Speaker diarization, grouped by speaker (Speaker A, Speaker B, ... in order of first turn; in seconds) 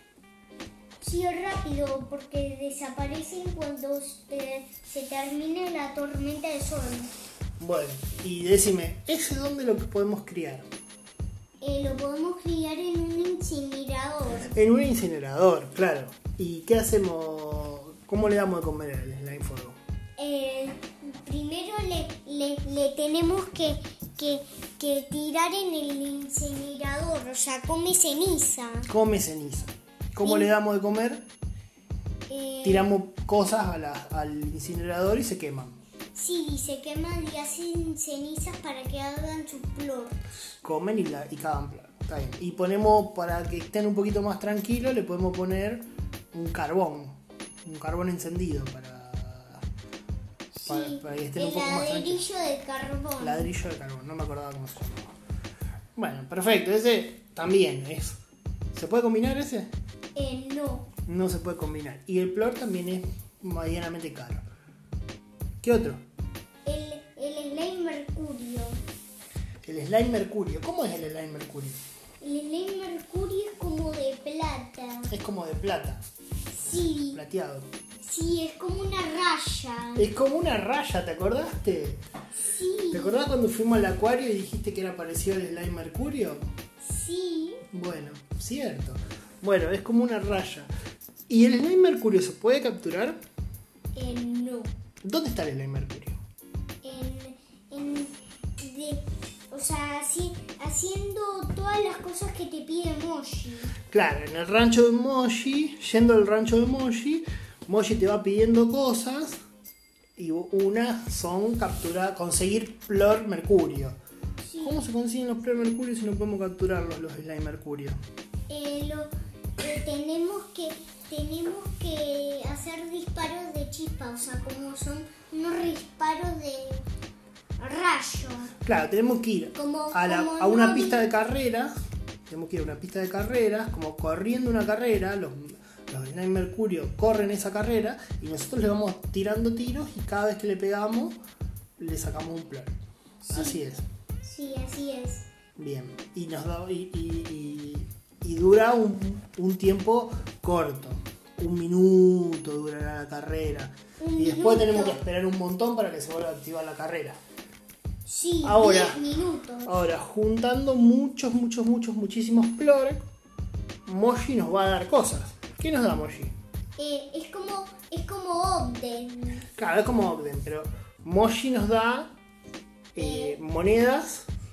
Speaker A: 1.0-7.1, 11.6-14.5, 20.2-28.9, 30.2-30.5, 32.3-32.9, 36.1-40.2, 50.5-53.5, 60.1-60.9, 66.7-68.8, 72.2-75.1, 76.5-77.2, 78.0-80.1, 82.4-83.2, 86.8-87.6, 94.0-94.7, 96.8-103.8, 114.4-114.8, 118.5-126.9, 127.6-128.5, 129.6-131.1, 143.2-143.6, 144.2-145.3, 154.0-155.0, 158.1-159.8, 166.8-169.5, 173.0-173.4
Speaker B: 7.6-10.7, 14.5-19.8, 28.9-31.3, 32.6-35.8, 40.6-49.6, 50.7-52.2, 53.2-55.1, 56.0-58.2, 58.7-59.7, 61.1-64.5, 65.6-66.0, 69.7-71.8, 75.1-76.0, 77.1-77.7, 80.0-82.0, 82.9-86.5, 87.7-90.7, 91.3-93.2, 95.0-96.2, 103.9-109.4, 110.2-114.0, 114.6-118.0, 128.7-131.7, 132.3-141.2, 141.8-142.8, 143.3-143.8, 145.6-157.2, 158.4-159.0, 159.7-163.1, 163.9-166.3, 169.6-172.2, 172.9-174.3